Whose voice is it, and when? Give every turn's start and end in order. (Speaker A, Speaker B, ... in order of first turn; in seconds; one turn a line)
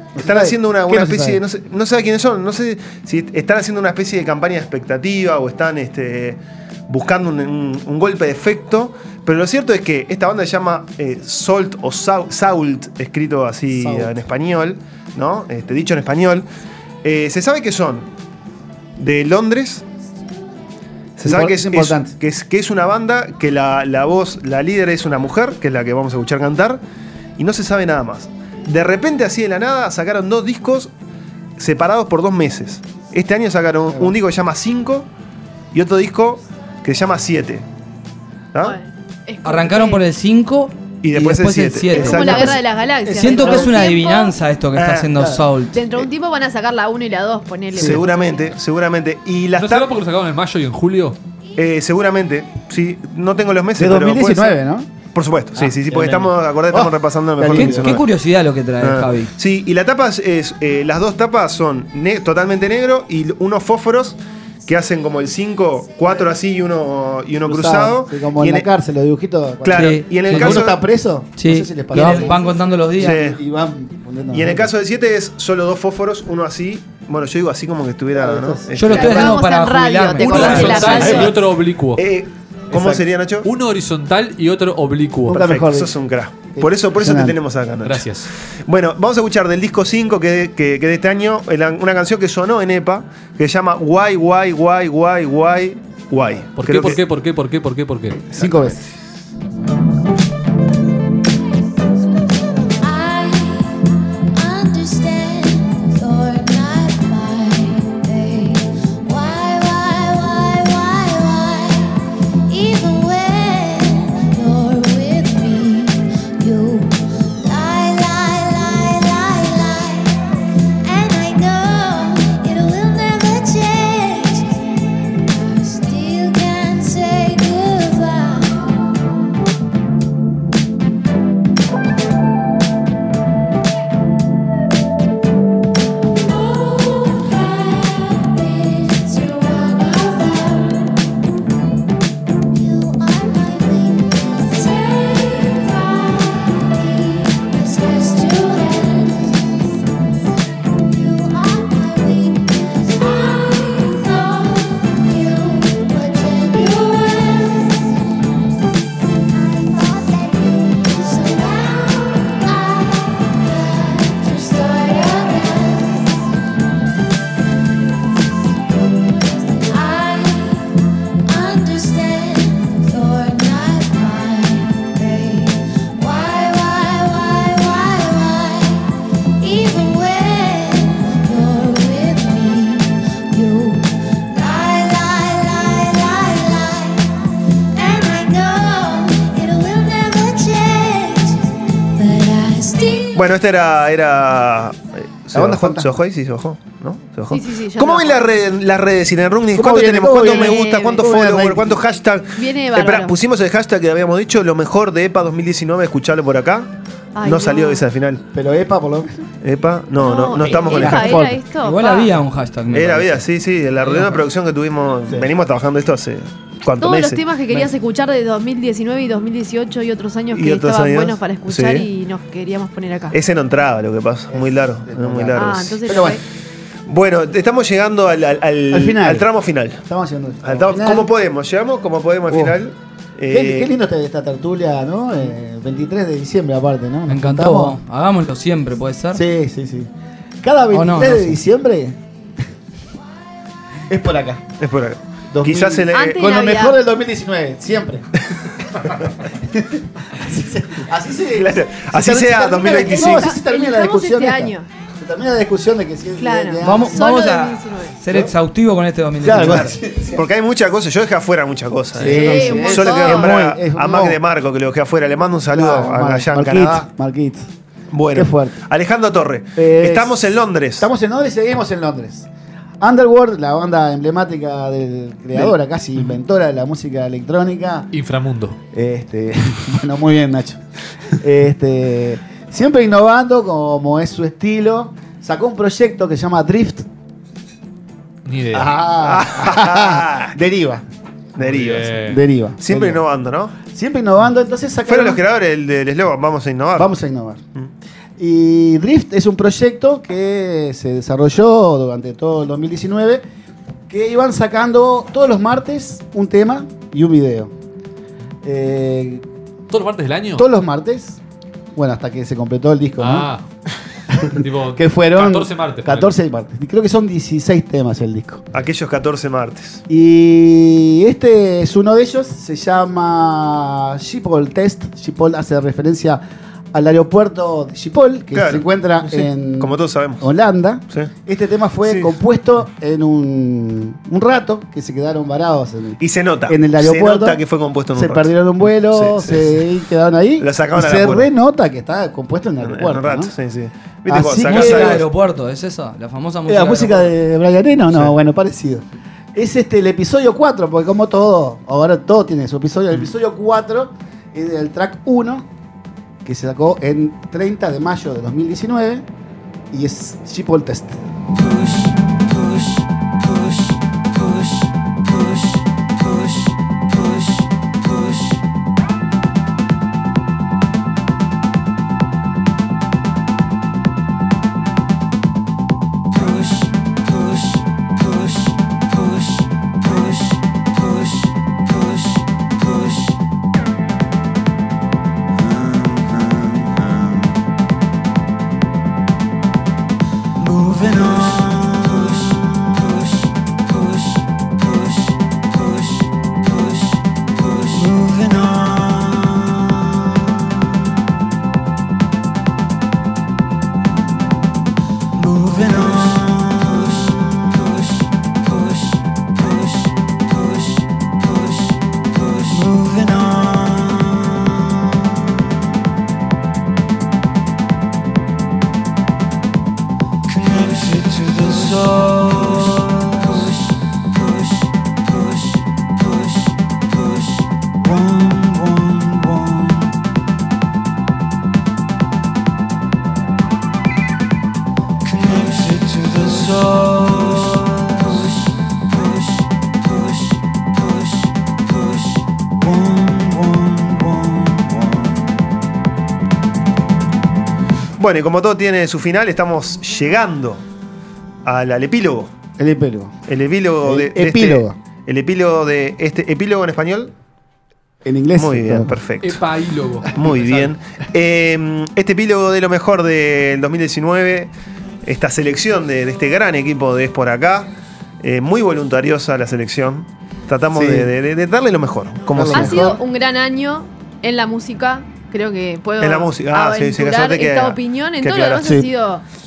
Speaker A: 0.2-1.4
Speaker B: 0.2-16.5
Speaker A: 13.7-14.1
Speaker B: 17.0-18.1
Speaker B: 19.0-19.9
Speaker B: 21.2-26.8
Speaker A: 21.2-22.1
Speaker B: 27.4-30.9
Speaker B: 31.6-35.1
Speaker B: 35.7-37.6
Speaker C: 38.6-40.0
Speaker D: 39.4-42.6
Speaker B: 41.0-42.6
Speaker C: 42.0-44.4
Speaker A: 43.0-43.8
Speaker D: 43.1-45.8
Speaker B: 44.8-45.1
Speaker C: 45.7-48.4
Speaker A: 47.8-48.0
Speaker B: 47.8-50.0
Speaker E: 49.6-51.2
Speaker B: 51.6-54.6
Speaker A: 53.8-54.9
Speaker B: 55.1-58.0
Speaker A: 55.6-58.0
Speaker D: 57.5-59.3
Speaker B: 58.8-68.7
Speaker A: 67.5-74.7
Speaker B: 69.6-70.8
Speaker D: 69.7-70.7
Speaker D: 71.3-73.3
Speaker B: 73.0-73.4
Speaker B: 74.3-79.2
Speaker A: 78.2-79.3
Speaker D: 78.7-81.2
Speaker C: 78.9-81.3
Speaker E: 80.2-82.0
Speaker B: 82.0-83.5
Speaker E: 83.4-85.5
Speaker A: 85.3-86.0
Speaker B: 85.3-97.0
Speaker A: 86.5-87.3
Speaker E: 87.8-88.3
Speaker E: 96.6-98.3
Speaker B: 98.3-98.8
Speaker A: 98.3-98.8
Speaker F: 102.8-103.7
Speaker F: 104.4-111.9
Speaker F: 112.5-120.1
Speaker F: 120.8-124.5
Speaker F: 125.3-128.5
Speaker F: 136.5-140.7
Speaker F: 142.6-149.2
Speaker F: 150.9-157.8
Speaker F: 159.5-166.2
Speaker F: 169.6-170.7
Speaker F: 171.3-178.8
Speaker F: 179.4-183.8
Speaker F: 184.3-187.0
Speaker F: 187.8-191.4
Speaker F: 192.0-193.1
Speaker B: 193.1-208.2
Speaker A: 195.3-195.9
Speaker C: 197.3-198.3
Speaker A: 199.5-201.8
Speaker C: 200.2-201.1
Speaker C: 202.4-203.2
Speaker C: 207.2-207.8
Speaker A: 208.3-209.1
Speaker B: 209.4-211.2
Speaker C: 210.0-212.1
Speaker D: 210.7-213.2
Speaker A: 210.8-211.4
Speaker B: 212.7-217.2
Speaker D: 213.8-214.2
Speaker C: 216.8-223.2
Speaker B: 220.3-221.9
Speaker B: 223.1-225.8
Speaker A: 224.3-226.2
Speaker C: 225.3-226.2
Speaker B: 226.9-229.8
Speaker A: 228.7-229.3
Speaker A: 229.8-231.1
Speaker B: 230.4-233.7
Speaker A: 232.3-232.6
Speaker A: 233.3-237.8
Speaker D: 237.1-239.2
Speaker A: 239.1-239.9
Speaker A: 240.4-242.0
Speaker D: 240.7-241.4
Speaker A: 243.9-244.4
Speaker B: 244.6-246.3
Speaker A: 245.3-248.1
Speaker C: 245.9-246.8
Speaker A: 248.7-257.1
Speaker B: 251.4-253.3
Speaker C: 252.8-254.7
Speaker C: 256.2-257.9
Speaker D: 256.6-259.8
Speaker A: 259.2-260.2
Speaker B: 260.1-266.9
Speaker A: 261.9-264.2
Speaker C: 262.0-263.4
Speaker A: 265.5-267.5
Speaker B: 267.9-270.9
Speaker A: 268.1-268.6
Speaker A: 269.6-270.2
Speaker A: 270.8-272.3
Speaker A: 272.8-277.9
Speaker E: 277.9-278.6
Speaker A: 278.7-280.6
Speaker A: 281.2-286.9
Speaker E: 288.2-288.8
Speaker A: 288.5-290.8
Speaker B: 289.0-290.4
Speaker B: 291.4-292.0
Speaker E: 291.4-292.2
Speaker A: 292.1-293.0
Speaker B: 292.6-293.6
Speaker A: 293.6-295.2
Speaker B: 294.9-296.9
Speaker A: 296.8-297.4
Speaker A: 298.2-303.2
Speaker A: 303.9-307.5
Speaker A: 308.4-309.2
Speaker E: 309.7-310.5
Speaker A: 310.4-311.2
Speaker A: 311.8-313.3
Speaker E: 313.0-313.4
Speaker A: 314.1-318.4
Speaker E: 314.2-316.1
Speaker B: 318.5-319.8
Speaker A: 319.9-326.2
Speaker A: 326.7-337.4
Speaker B: 328.3-330.3
Speaker B: 331.9-332.1
Speaker B: 336.0-338.3
Speaker A: 337.9-343.3
Speaker B: 338.9-339.6
Speaker B: 340.4-341.3
Speaker B: 342.6-345.1
Speaker A: 344.1-345.1
Speaker D: 344.4-347.1
Speaker A: 346.5-348.8
Speaker A: 349.4-355.5
Speaker A: 356.2-359.1
Speaker A: 359.7-361.0
Speaker G: 385.5-386.9
Speaker G: 390.4-392.8
Speaker G: 397.6-400.0
Speaker G: 405.2-407.7
Speaker G: 412.5-414.5
Speaker G: 420.3-423.5
Speaker G: 427.8-429.9
Speaker G: 435.1-438.3
Speaker G: 442.6-445.1
Speaker B: 448.0-450.6
Speaker B: 451.4-452.3
Speaker A: 452.6-453.1
Speaker B: 453.3-457.1
Speaker A: 453.8-454.8
Speaker A: 458.1-458.9
Speaker B: 458.4-459.4
Speaker E: 459.2-460.7
Speaker B: 460.1-464.5
Speaker B: 465.1-472.9
Speaker A: 470.7-471.1
Speaker A: 472.3-473.0
Speaker C: 472.5-479.2
Speaker B: 476.0-478.8